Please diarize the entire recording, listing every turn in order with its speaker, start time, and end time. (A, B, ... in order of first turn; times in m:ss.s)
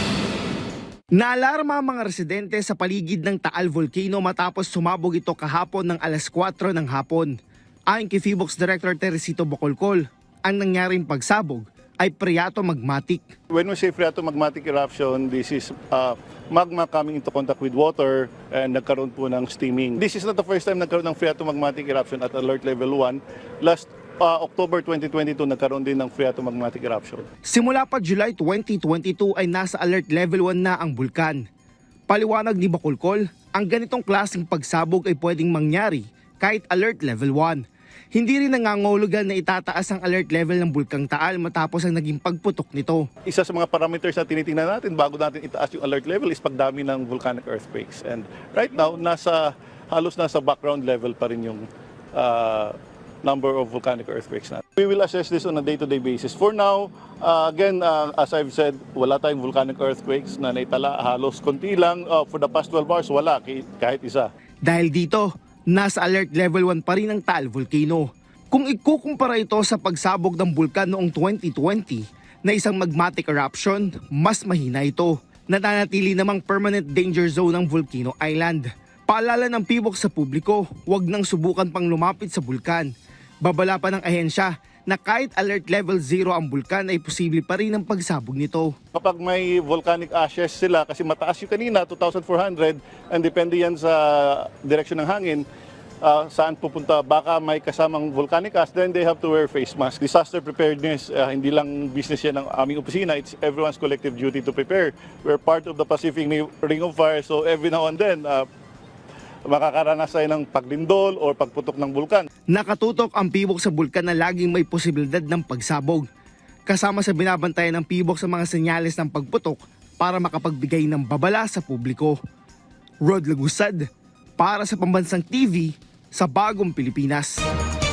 0:01.2-0:07.4 A
0:07.9-0:13.3 A
0:13.5-0:27.3 B
0:27.5-0:31.4 A
0:32.1-0:37.6 A
0:38.1-0:43.0 A
0:43.3-1:04.3 B
1:04.6-1:22.9 A
1:23.4-1:28.8 A
1:29.0-1:35.4 B
1:36.0-1:48.5 B
1:49.5-1:52.3 B
1:52.5-1:56.1 A
1:56.7-2:02.2 A
2:03.0-2:03.8 A
2:04.4-2:07.4 A